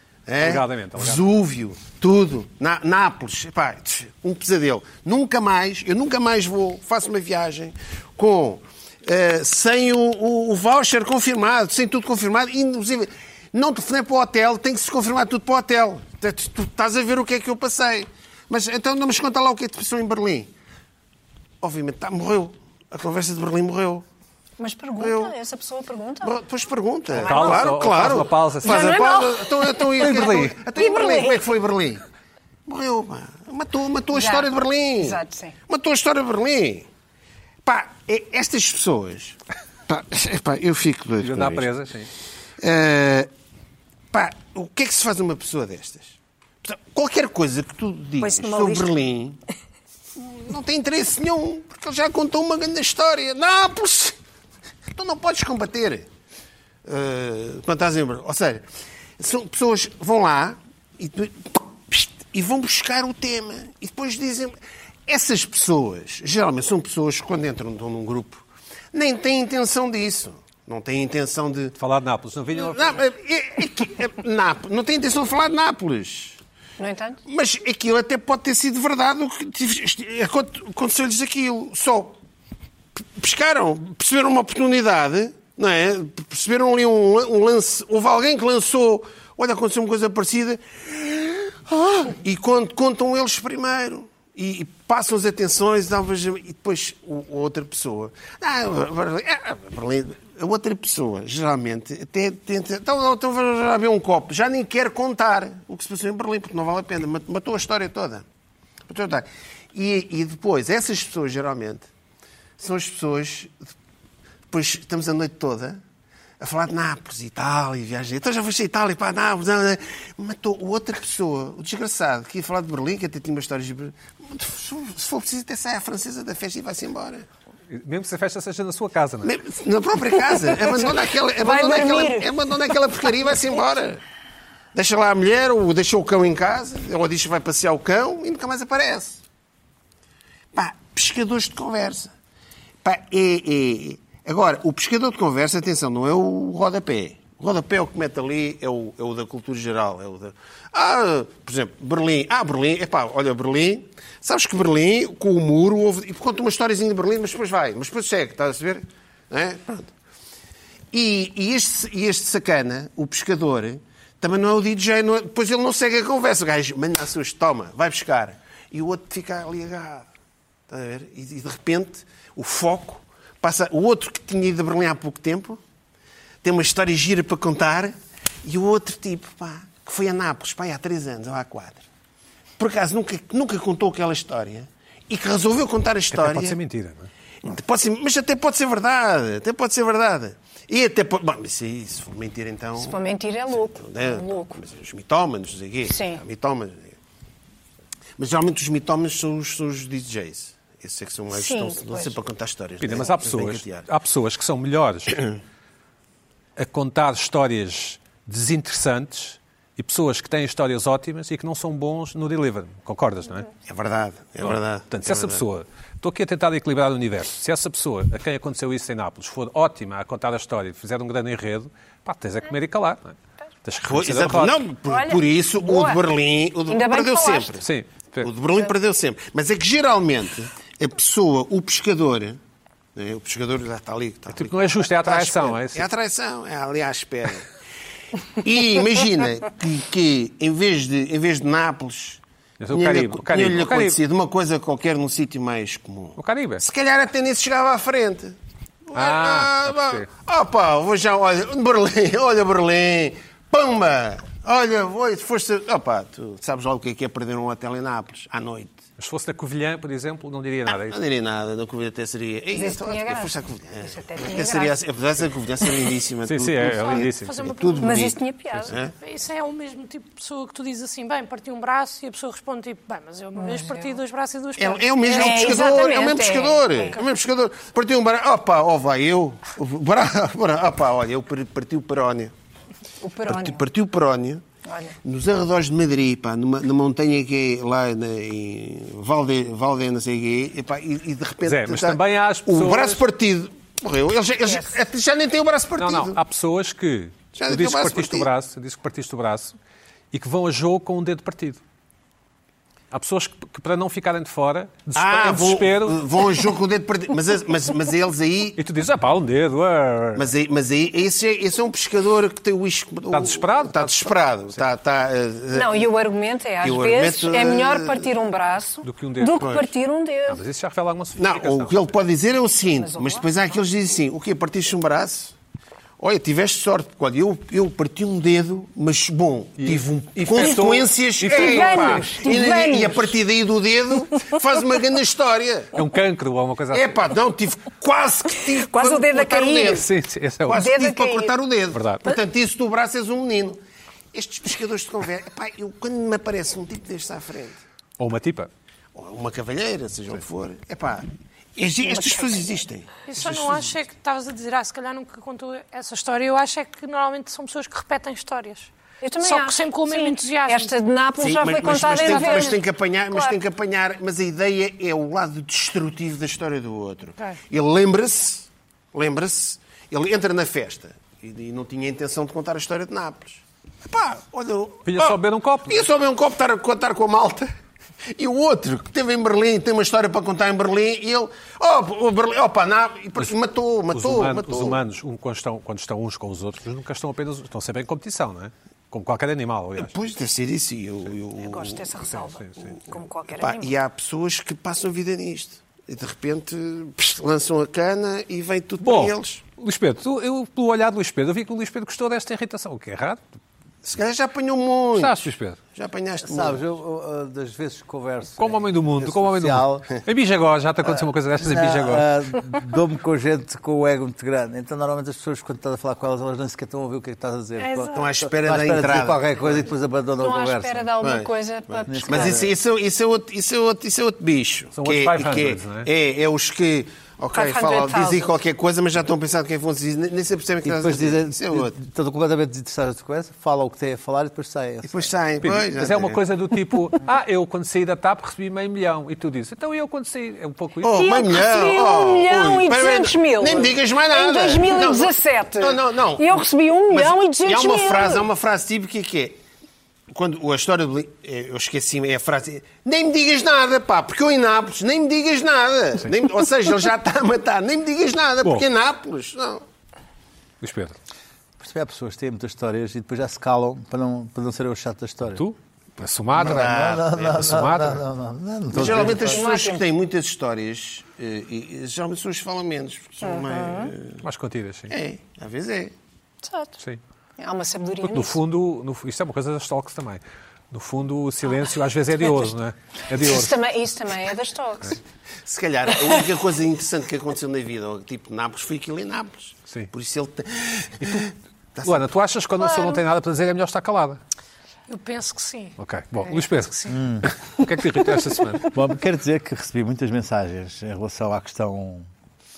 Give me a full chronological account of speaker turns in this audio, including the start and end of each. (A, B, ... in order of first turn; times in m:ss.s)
0:00.2-0:20.5 A
0:00.4-0:01.2 B
0:21.6-0:24.0 A
0:24.6-0:26.3 C
0:25.0-0:25.3 A
0:26.2-0:32.0 A
0:27.2-0:27.8 C
0:27.2-0:29.1 B
0:28.6-0:31.4 C
0:30.0-0:30.5 B
0:32.6-0:36.8 A
0:34.1-0:35.6 C
0:37.6-0:41.7 A
0:41.2-0:42.1 B
0:42.6-0:43.3 A
0:44.1-0:49.4 A
0:48.2-0:48.9 C
0:50.2-0:54.2 A
0:54.9-0:56.1 A
0:56.8-0:58.6 A
0:59.2-1:04.6 A
1:05.1-1:11.8 A
1:11.8-1:13.0 B
1:12.5-1:16.4 A
1:16.8-1:17.2 C
1:17.2-1:22.2 A
1:23.0-1:48.2 A
1:48.9-1:51.9 A
1:52.6-1:53.6 A
1:54.5-1:55.8 A
1:56.4-2:07.3 A
2:07.7-2:09.4 B
2:09.2-2:14.0 A
2:10.5-2:12.3 C
2:14.7-2:19.2 A
2:20.5-2:22.1 A
2:22.8-2:39.9 A
2:40.9-2:50.1 A
2:50.7-2:55.6 A
2:56.4-3:01.8 A
3:02.6-3:06.6 A
3:06.1-3:07.1 B
3:07.4-3:13.0 A
3:12.8-3:14.6 C
3:13.6-3:17.0 A
3:15.8-3:16.2 C
3:18.2-3:23.9 A
3:21.3-3:22.2 C
3:22.8-3:25.3 B
3:26.6-3:33.5 B
3:33.6-3:35.4 A
3:34.4-3:44.6 B
3:43.8-3:47.6 A
3:44.8-3:46.0 C
3:46.7-3:47.6 C
3:47.6-3:48.3 B
3:48.2-3:52.4 A
3:52.9-3:57.5 A
3:54.3-3:55.9 B
3:58.4-4:08.4 A
4:02.6-4:04.0 B
4:06.2-4:06.6 B
4:08.9-4:18.8 A
4:08.9-4:10.1 B
4:19.0-4:21.0 B
4:20.7-4:28.9 A
4:22.5-4:24.8 C
4:26.2-4:27.5 B
4:26.8-4:28.1 D
4:27.8-4:28.8 C
4:29.0-4:35.8 D
4:33.4-4:34.0 C
4:34.6-4:42.3 A
4:35.1-4:37.0 C
4:43.0-4:43.6 C
4:43.2-4:44.4 A
4:44.6-4:45.0 C
4:45.0-4:56.2 A
4:51.4-4:53.0 B
4:55.8-4:59.5 B
4:57.3-4:58.3 A
5:00.1-5:01.6 B
5:02.9-5:06.0 B
5:04.9-5:08.6 A
5:08.6-5:10.3 B
5:10.2-5:15.9 A
5:13.1-5:14.6 B
5:15.5-5:20.4 C
5:16.6-5:18.1 A
5:18.8-5:19.6 B
5:19.4-5:19.7 A
5:20.3-5:21.8 B
5:21.2-5:25.3 A
5:22.8-5:23.2 C
5:26.0-5:35.7 A
5:29.6-5:32.1 B
5:31.3-5:33.2 C
5:35.7-5:37.1 B
5:36.7-5:39.8 A
5:38.5-5:39.8 C
5:39.7-5:40.6 B
5:40.5-5:43.6 A
5:40.5-5:41.4 C
5:41.7-5:42.1 B
5:44.1-5:47.6 A
5:48.0-5:48.5 B
5:48.9-5:53.7 A
5:51.8-5:52.6 C
5:53.1-5:58.7 D
5:59.0-6:03.4 C
5:59.2-6:00.7 D
6:01.2-6:17.5 A
6:02.0-6:02.5 D
6:14.8-6:15.8 B
6:18.1-6:24.8 A
6:23.9-6:29.9 B
6:29.8-6:32.0 A
6:31.4-6:33.7 C
6:32.1-6:32.8 B
6:33.4-6:39.4 A
6:38.8-6:43.2 B
6:43.8-6:45.2 A
6:45.0-6:45.6 B
6:45.7-6:46.6 A
6:46.2-6:49.9 E
6:48.4-6:52.1 B
6:51.4-7:00.9 E
6:57.6-6:58.1 C
6:57.9-6:59.2 A
7:00.2-7:02.4 C
7:01.0-7:11.8 A
7:01.9-7:02.5 E
7:04.7-7:05.9 B
7:07.3-7:08.3 C
7:10.6-7:15.1 E
7:14.8-7:16.2 A
7:15.4-7:21.1 B
7:20.8-7:29.4 A
7:20.9-7:28.3 C
7:30.1-7:39.6 A
7:40.6-7:41.0 B
7:41.6-7:45.4 E
7:45.3-7:48.0 B
7:46.4-7:49.5 E
7:46.4-7:47.4 A
7:48.7-7:54.2 A
7:49.3-7:49.8 C
7:53.2-7:53.9 C
7:54.2-7:54.9 B
7:54.9-7:55.9 A
7:56.4-7:56.8 C
7:57.4-7:58.4 C
7:58.0-8:03.6 B
8:03.2-8:05.0 C
8:05.4-8:12.0 A
8:11.8-8:14.2 B
8:12.7-8:13.0 C
8:14.9-8:16.6 D
8:15.8-8:18.7 B
8:16.9-8:17.3 E
8:18.7-8:22.1 E